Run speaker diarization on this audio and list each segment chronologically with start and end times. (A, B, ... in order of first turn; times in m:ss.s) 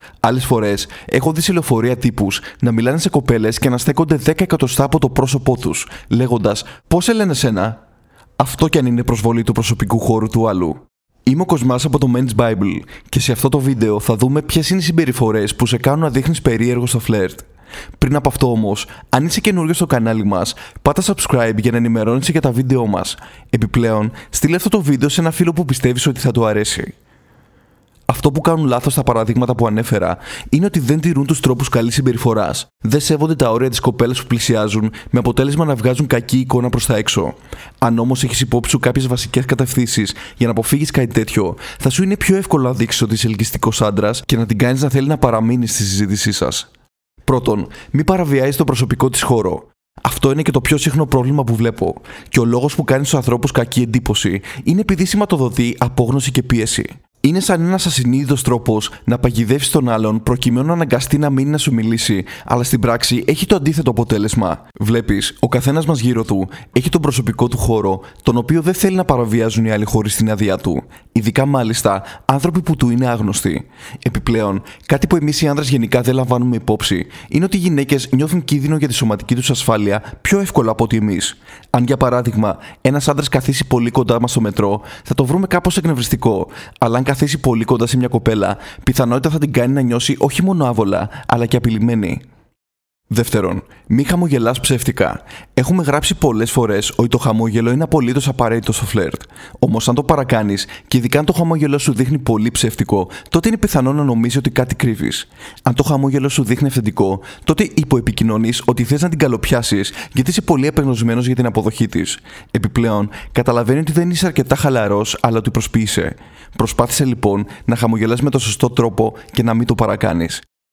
0:00.2-0:07.8 A
0:08.4-0:17.4 A
0:18.0-0:26.9 A
0:28.1-0:46.7 A
0:47.2-1:32.2 A
1:33.1-2:00.4 A